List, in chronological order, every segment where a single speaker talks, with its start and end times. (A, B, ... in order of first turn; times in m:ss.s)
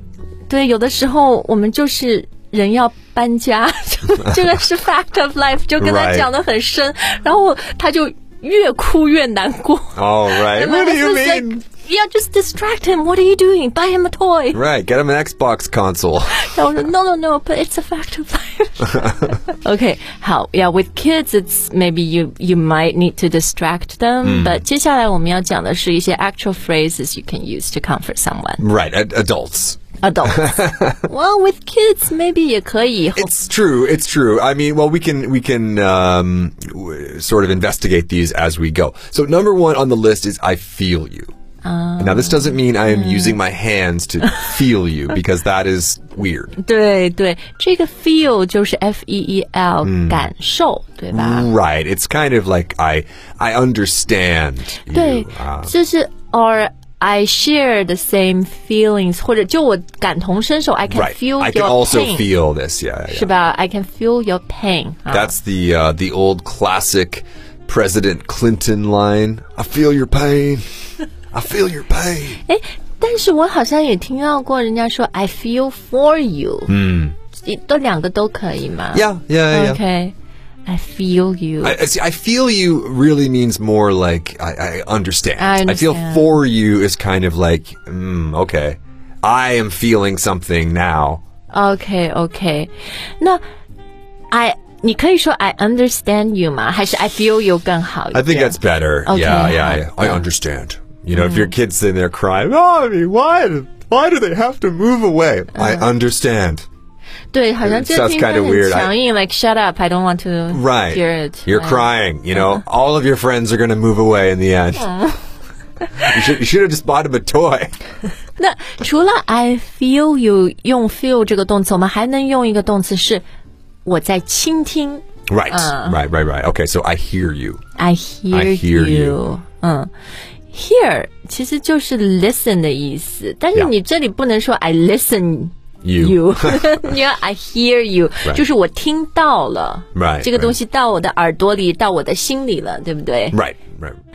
0:00.5-0:14.6 A
0:05.8-0:06.3 B
0:09.9-0:11.6 B
0:14.5-0:16.5 B
0:16.3-0:28.6 A
0:24.2-0:24.6 B
0:28.6-0:31.0 B
0:30.0-0:33.3 A
0:33.2-0:41.3 B
0:41.6-0:43.4 A
0:42.0-0:46.5 B
0:46.6-0:51.5 A
0:49.8-0:50.3 B
0:51.1-0:55.7 B
0:54.9-1:02.3 A
1:00.9-1:03.3 B
1:03.1-1:05.3 A
1:05.1-1:10.6 B
1:11.3-1:12.4 B
1:12.5-1:16.7 A
1:16.7-1:17.1 B
1:17.4-1:20.1 A
1:18.9-1:19.8 B
1:20.6-1:21.8 A
1:21.6-1:31.2 B
1:25.4-1:26.3 A
1:31.5-1:33.4 A
1:34.3-1:40.2 A
1:38.1-1:46.6 B
1:41.1-1:41.5 A
1:45.5-1:45.9 A
1:47.3-1:52.6 A
1:47.6-1:48.9 B
1:50.5-1:54.9 B
1:54.8-1:55.2 A
1:56.0-1:57.7 B
1:58.4-2:03.2 A
2:03.8-2:06.0 A
2:05.3-2:07.6 B
2:07.8-2:09.9 A
2:08.3-2:09.2 B
2:10.5-2:23.4 A
2:15.8-2:17.0 B
2:19.9-2:20.6 B
2:23.3-2:24.0 B